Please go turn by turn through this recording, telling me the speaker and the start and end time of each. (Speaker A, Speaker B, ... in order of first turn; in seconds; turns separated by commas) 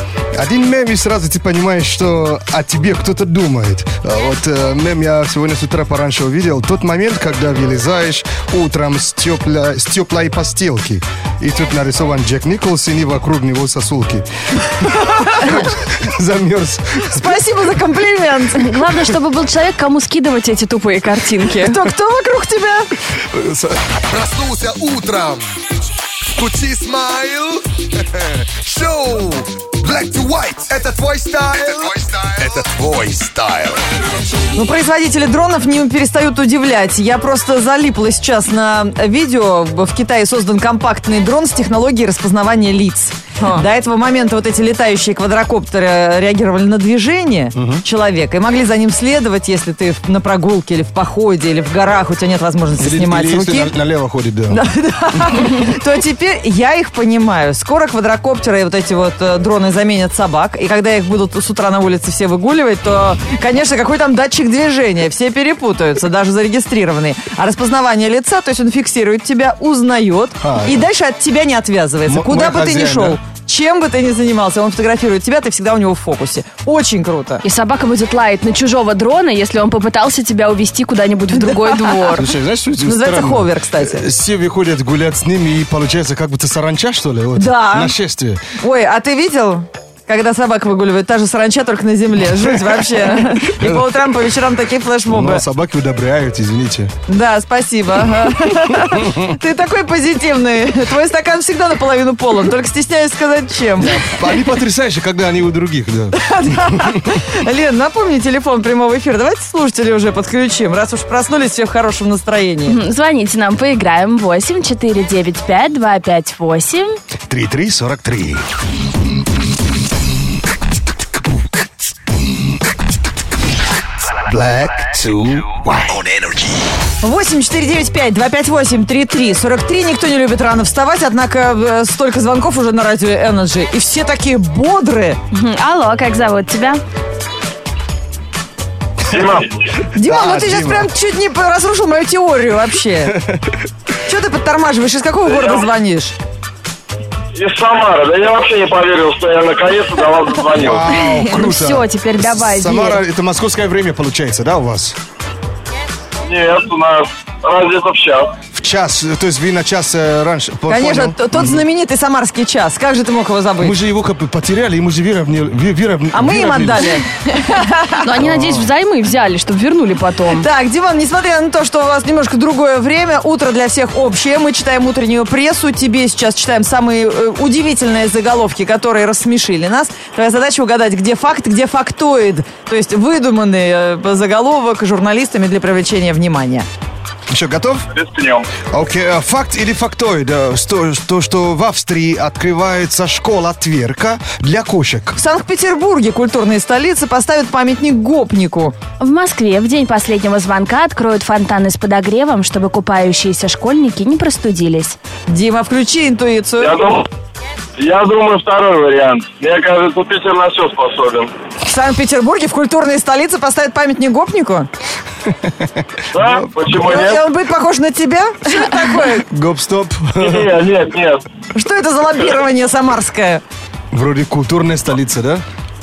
Speaker A: 0.3-17.4, Speaker B: 14.9-15.5, Speaker B: 17.0-18.8, Speaker C: 18.6-21.8, Speaker B: 21.4-22.9, Speaker A: 23.1-23.8, Speaker D: 24.1-25.4, Speaker D: 26.4-27.6, Speaker D: 28.5-33.7, Speaker A: 32.4-33.6, Speaker B: 34.5-53.7, Speaker A: 47.5-47.8, Speaker A: 52.8-54.6, Speaker B: 54.5-77.4, Speaker A: 70.4-70.8, Speaker A: 72.1-73.2, Speaker C: 77.4-82.3, Speaker B: 81.4-82.1, Speaker A: 82.1-88.4, Speaker B: 82.8-84.0, Speaker B: 87.3-88.0, Speaker B: 88.6-95.4, Speaker A: 92.5-94.1, Speaker A: 95.1-96.9, Speaker B: 97.1-104.1, Speaker A: 103.8-107.2, Speaker B: 106.1-112.8, Speaker C: 112.7-117.0, Speaker A: 117.3-118.4, Speaker A: 124.1-126.4, Speaker B: 127.0-135.2, Speaker C: 135.3-136.8, Speaker E: 139.1-139.4, Speaker B: 139.9-143.2, Speaker A: 139.9-140.9, Speaker A: 143.1-143.4, Speaker B: 144.0-146.2, Speaker E: 147.3-150.8, Speaker A: 150.5-154.9, Speaker C: 150.8-153.0, Speaker E: 156.2-158.3, Speaker A: 158.5-161.6, Speaker B: 160.7-163.7, Speaker A: 163.6-167.0, Speaker B: 166.1-168.1, Speaker C: 167.3-170.5, Speaker A: 168.2-168.7, Speaker B: 170.3-186.7, Speaker A: 187.3-187.8, Speaker E: 187.9-188.4, Speaker A: 188.7-195.2, Speaker B: 195.1-198.7, Speaker C: 199.0-204.9, Speaker B: 205.3-206.9, Speaker E: 206.6-207.0, Speaker E: 207.8-211.3, Speaker B: 211.6-214.7, Speaker A: 215.3-216.8, Speaker E: 216.1-217.2, Speaker B: 216.7-219.2, Speaker A: 219.3-220.6, Speaker E: 220.2-221.2, Speaker B: 221.5-223.4, Speaker A: 223.9-225.4